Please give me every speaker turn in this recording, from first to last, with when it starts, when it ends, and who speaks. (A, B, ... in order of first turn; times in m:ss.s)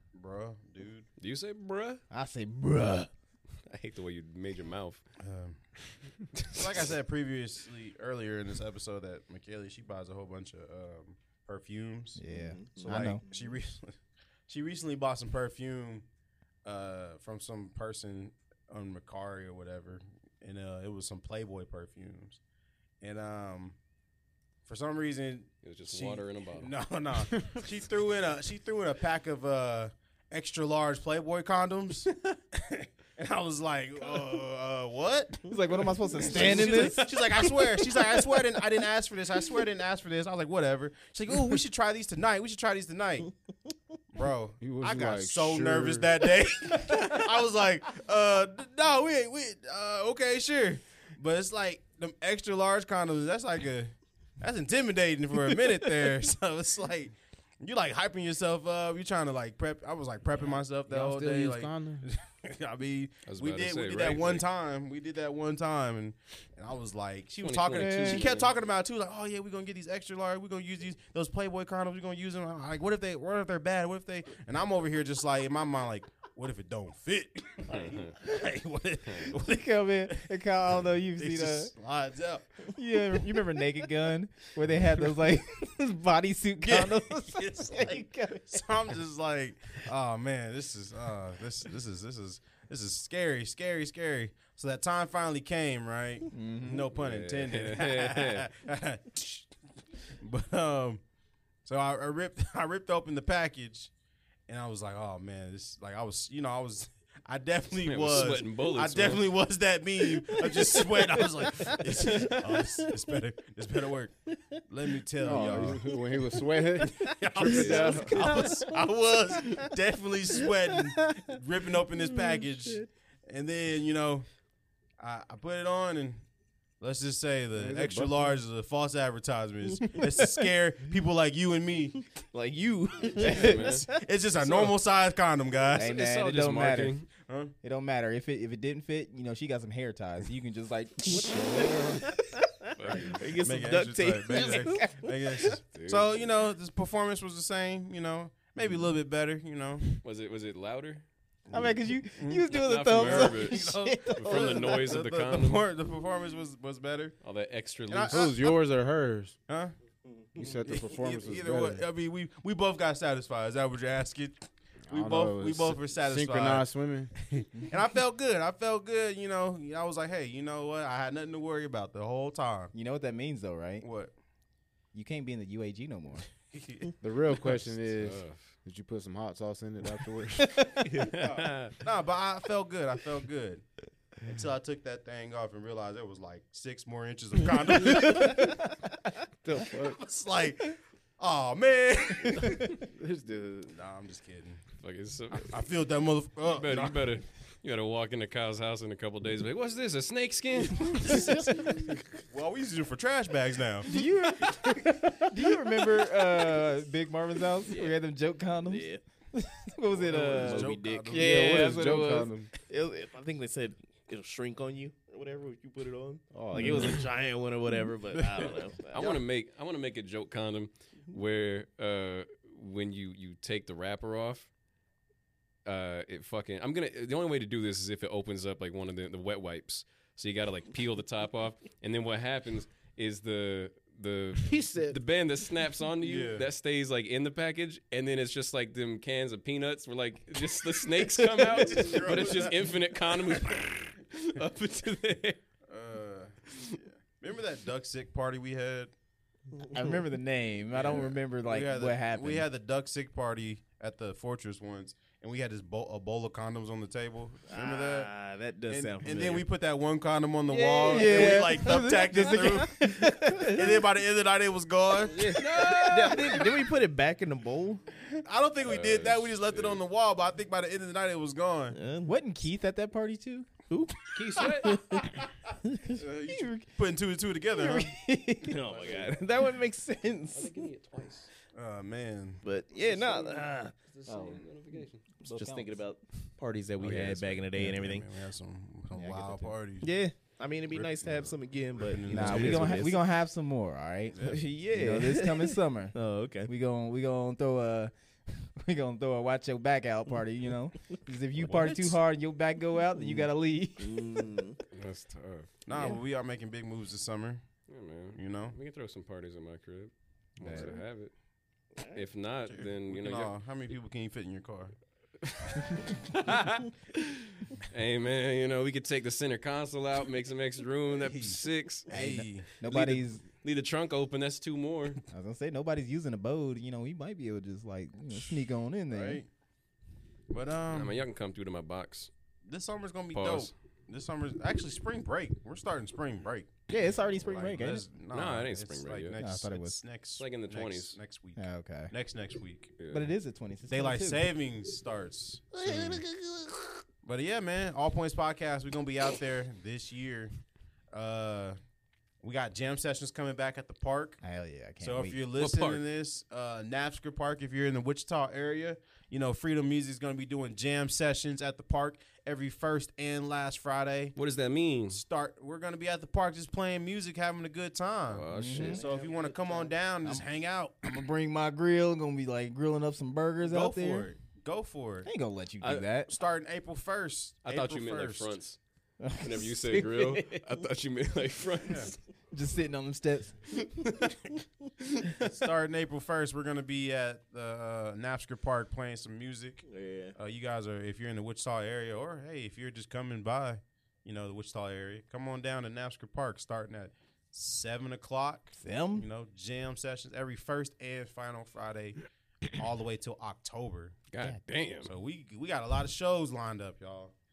0:00.1-0:01.1 A
0:01.2-0:02.0 B
0:02.1-0:03.1 C
0:03.7-0:05.0 B
0:05.2-0:05.6 A
0:06.4-0:06.9 B
0:06.5-0:12.2 A
0:12.2-0:13.2 C
0:12.3-0:13.5 D
0:12.8-0:16.1 A
0:16.6-0:22.4 A
0:23.0-0:23.8 A
0:24.7-0:35.4 A
0:25.6-0:26.7 B
0:35.5-0:37.1 C
0:36.2-0:43.3 A
0:36.3-0:36.9 D
0:44.1-1:20.3 A
0:44.6-0:46.1 E
1:00.8-1:02.1 E
1:03.3-1:04.4 B
1:07.4-1:08.5 B
1:07.7-1:08.3 C
1:17.7-1:18.1 B
1:19.3-1:21.7 C
1:21.2-1:22.7 A
1:22.7-1:28.7 C
1:26.6-1:39.5 A
1:36.3-1:36.9 C
1:36.9-1:38.5 B
1:40.2-1:41.0 A
1:41.6-1:43.9 A
1:44.5-1:56.0 A
1:47.8-1:49.3 B
1:52.0-1:52.4 B
1:54.3-1:54.6 D
1:55.2-1:58.3 E
1:56.8-2:04.3 A
1:57.4-1:58.4 B
1:58.0-1:58.7 D
2:00.7-2:01.3 D
2:02.0-2:02.9 D
2:05.0-2:06.2 A
2:06.8-2:12.1 A
2:07.6-2:08.4 E
2:12.2-2:14.1 D
2:13.2-2:14.7 B
2:13.2-2:15.9 A
2:15.7-2:17.1 B
2:15.7-2:17.0 C
2:17.2-2:17.5 A
2:17.6-2:22.2 C
2:21.2-2:22.0 E
2:22.6-2:25.5 D
2:22.7-2:23.4 B
2:23.4-2:29.9 A
2:24.3-2:25.1 C
2:25.7-2:26.2 B
2:30.0-2:31.0 B
2:31.5-2:35.0 C
2:31.5-2:37.2 A
2:32.5-2:35.6 B
2:37.2-2:38.3 B
2:37.9-2:38.6 A
2:38.1-2:39.4 E
2:39.5-2:39.7 A
2:40.4-2:41.8 E
2:40.4-2:46.7 A
2:44.9-2:47.1 E
2:47.2-2:52.7 A
2:52.7-2:53.9 C
2:53.8-2:54.1 A
2:54.9-2:56.3 C
2:56.5-2:56.9 A
2:57.0-3:00.8 E
2:57.9-2:58.5 B
3:00.8-3:01.8 B
3:01.2-3:03.7 A
3:04.2-3:08.6 A
3:09.4-3:10.0 E
3:09.8-3:12.8 A
3:12.6-3:13.8 E
3:13.7-3:14.6 A
3:14.8-3:15.6 B
3:15.3-3:17.1 A
3:16.5-3:22.0 B
3:21.1-3:21.5 A
3:22.3-3:23.9 A
3:23.9-3:32.3 C
3:27.7-3:28.0 D
3:28.6-3:29.0 D
3:30.0-3:31.7 A
3:30.3-3:31.8 D
3:31.1-3:32.5 E
3:32.6-3:39.1 D
3:36.3-3:37.1 E
3:36.5-3:37.0 C
3:38.1-3:39.2 A
3:38.9-3:44.5 B
3:45.6-4:05.4 B
3:54.5-3:54.9 E
3:56.0-3:56.4 A
4:01.4-4:01.7 D
4:01.5-4:03.7 A
4:05.7-4:08.9 A
4:09.6-4:09.9 D
4:09.7-4:12.5 C
4:10.7-4:18.1 A
4:17.5-4:19.4 D
4:18.7-4:25.4 A
4:20.5-4:21.9 D
4:20.8-4:23.8 C
4:23.2-4:23.7 D
4:25.1-4:27.8 D
4:25.2-4:26.6 B
4:28.1-4:31.8 A
4:28.6-4:29.8 B
4:31.7-4:32.1 D
4:32.0-4:33.5 C
4:33.7-4:35.0 D
4:34.1-4:34.8 B
4:35.7-4:36.0 D
4:35.9-4:38.0 A
4:36.3-4:36.7 C
4:37.5-4:38.6 C
4:38.4-4:40.6 D
4:38.6-4:39.2 B
4:40.3-4:41.3 B
4:41.6-4:42.4 A
4:42.4-4:43.7 D
4:42.8-4:45.1 B
4:44.1-4:44.5 C
4:45.2-4:48.1 D
4:45.2-4:45.8 C
4:46.8-4:49.9 A
4:48.9-4:49.6 C
4:49.8-4:53.0 D
4:50.7-4:52.9 A
4:52.1-5:04.3 C
4:54.1-4:54.4 A
4:54.3-4:56.5 D
5:01.4-5:02.0 A
5:03.0-5:04.6 D
5:04.7-5:06.0 B
5:05.7-5:07.4 A
5:05.7-5:06.0 D
5:07.7-5:11.1 B
5:08.2-5:08.6 A
5:10.4-5:10.7 C
5:10.4-5:10.7 A
5:11.9-5:13.3 B
5:12.5-5:14.8 A
5:15.2-5:21.9 B
5:20.9-5:22.6 A
5:21.9-5:23.2 C
5:22.7-5:25.0 B
5:25.1-5:29.2 C
5:28.9-5:29.3 A
5:30.3-5:31.0 A
5:30.7-5:32.1 B
5:32.4-5:36.5 A
5:33.1-5:33.5 B
5:36.7-5:37.8 C
5:37.2-5:42.8 A
5:38.1-5:39.2 B
5:39.2-5:39.8 C
5:40.2-5:41.0 B
5:41.4-5:41.9 C
5:42.8-5:43.1 B
5:42.9-5:44.3 C
5:43.7-5:46.0 A
5:45.6-5:46.3 C
5:47.0-5:50.3 A
5:50.9-5:51.6 A
5:52.2-5:54.2 A
5:54.2-5:55.2 C
5:54.8-6:04.2 A
5:55.4-5:55.8 B
6:04.2-6:05.0 B
6:04.9-6:10.9 A
6:08.1-6:08.8 B
6:08.3-6:08.8 C
6:08.4-6:09.7 D
6:10.8-6:14.1 C
6:13.4-6:15.1 A
6:15.0-6:16.1 C
6:15.6-6:15.9 B
6:16.1-6:18.3 A
6:17.4-6:18.6 B
6:19.0-6:19.6 C
6:19.2-6:22.0 B
6:20.1-6:20.5 D
6:21.6-6:21.9 A
6:22.3-6:23.4 C
6:23.6-6:24.2 B
6:24.8-6:25.1 B
6:25.2-6:44.0 A
6:29.6-6:30.2 D
6:38.6-6:39.1 C
6:44.1-6:44.9 B
6:44.8-6:47.1 A